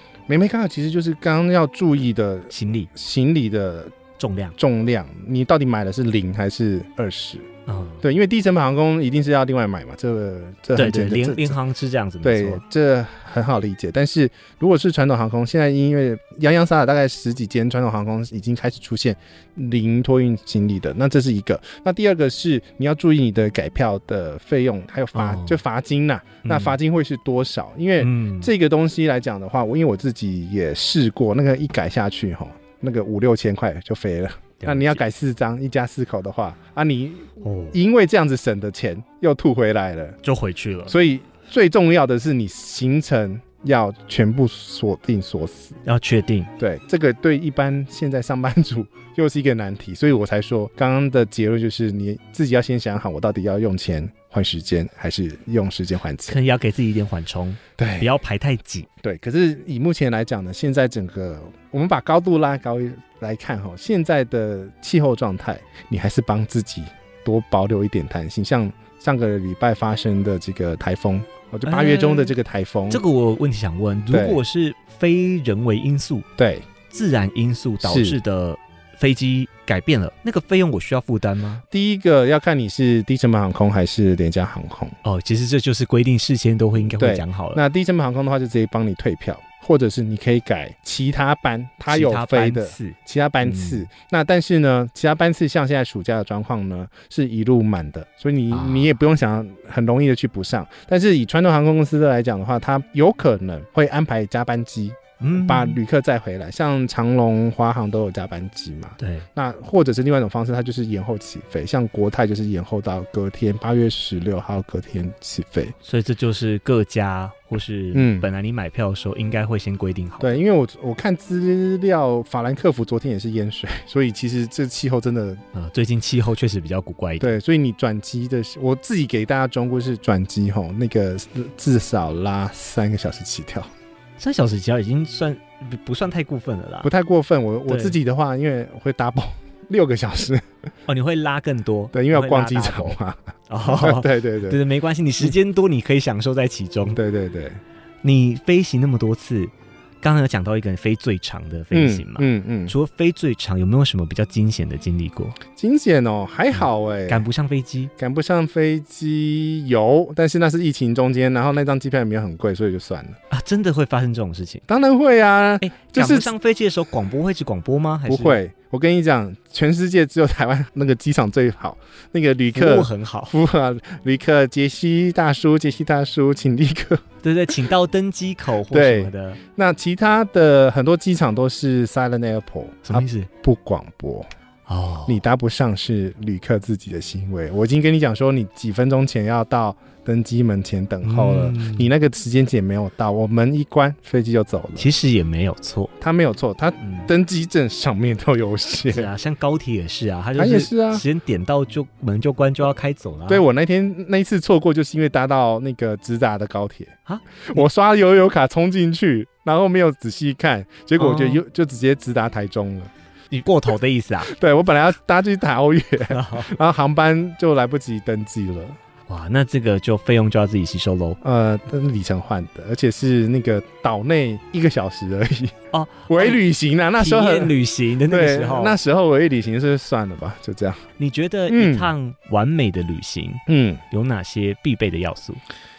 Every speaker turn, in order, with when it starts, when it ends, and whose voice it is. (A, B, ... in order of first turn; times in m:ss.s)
0:00.3-0:03.9 A
0:02.5-0:02.9 B
0:04.2-0:04.6 B
0:04.6-0:07.5 A
0:07.7-0:08.0 B
0:08.0-0:11.6 A
0:10.8-0:12.6 B
0:12.2-0:40.2 A
0:25.1-0:25.6 B
0:26.4-0:26.8 B
0:28.0-0:28.5 B
0:34.6-0:35.0 B
0:37.4-0:37.8 B
0:40.2-0:41.0 B
0:40.9-0:45.8 A
0:45.8-0:46.5 B
0:46.6-0:56.4 A
0:56.3-0:58.9 B
0:57.8-0:58.1 A
0:59.0-1:13.0 A
1:11.6-1:12.3 B
1:12.9-1:16.3 B
1:14.1-1:14.4 A
1:16.4-1:16.7 A
1:16.9-1:21.6 B
1:17.8-1:18.2 A
1:21.7-1:25.0 A
1:25.0-1:27.6 B
1:26.9-1:55.7 A
1:31.9-1:33.8 B
1:38.5-1:38.9 B
1:45.2-1:45.8 B
1:49.0-1:49.2 B
1:55.8-2:00.4 B
1:57.9-1:58.3 A
2:00.2-2:05.4 A
2:05.5-2:07.4 B
2:07.2-2:13.7 A
2:14.2-2:16.9 B
2:16.8-2:20.5 A
2:17.7-2:18.0 B
2:20.9-2:23.0 B
2:21.9-2:24.6 A
2:23.5-2:27.0 B
2:27.0-2:27.6 A
2:28.0-2:35.4 B
2:31.7-2:32.7 A
2:35.6-2:37.2 A
2:36.5-2:37.9 B
2:38.0-2:43.2 A
2:43.3-2:44.6 B
2:44.7-2:46.3 A
2:45.6-2:48.4 B
2:48.1-2:57.0 A
2:52.5-2:53.4 B
2:57.2-2:59.4 B
2:58.7-3:04.3 A
3:02.8-3:03.3 B
3:04.7-3:05.2 B
3:05.1-3:14.9 A
3:11.0-3:11.9 B
3:14.8-3:15.9 B
3:16.0-3:19.1 A
3:16.8-3:17.1 B
3:18.9-3:23.4 B
3:20.4-3:21.0 A
3:23.3-3:32.9 A
3:27.1-3:27.6 B
3:31.0-3:31.4 B
3:33.3-3:34.3 B
3:34.2-3:38.8 A
3:36.1-3:36.5 B
3:39.1-3:41.2 B
3:41.2-3:45.6 A
3:45.7-3:46.4 B
3:46.1-3:50.8 A
3:47.0-3:48.8 B
3:51.0-3:55.4 B
3:51.5-3:51.9 A
3:53.5-3:53.8 A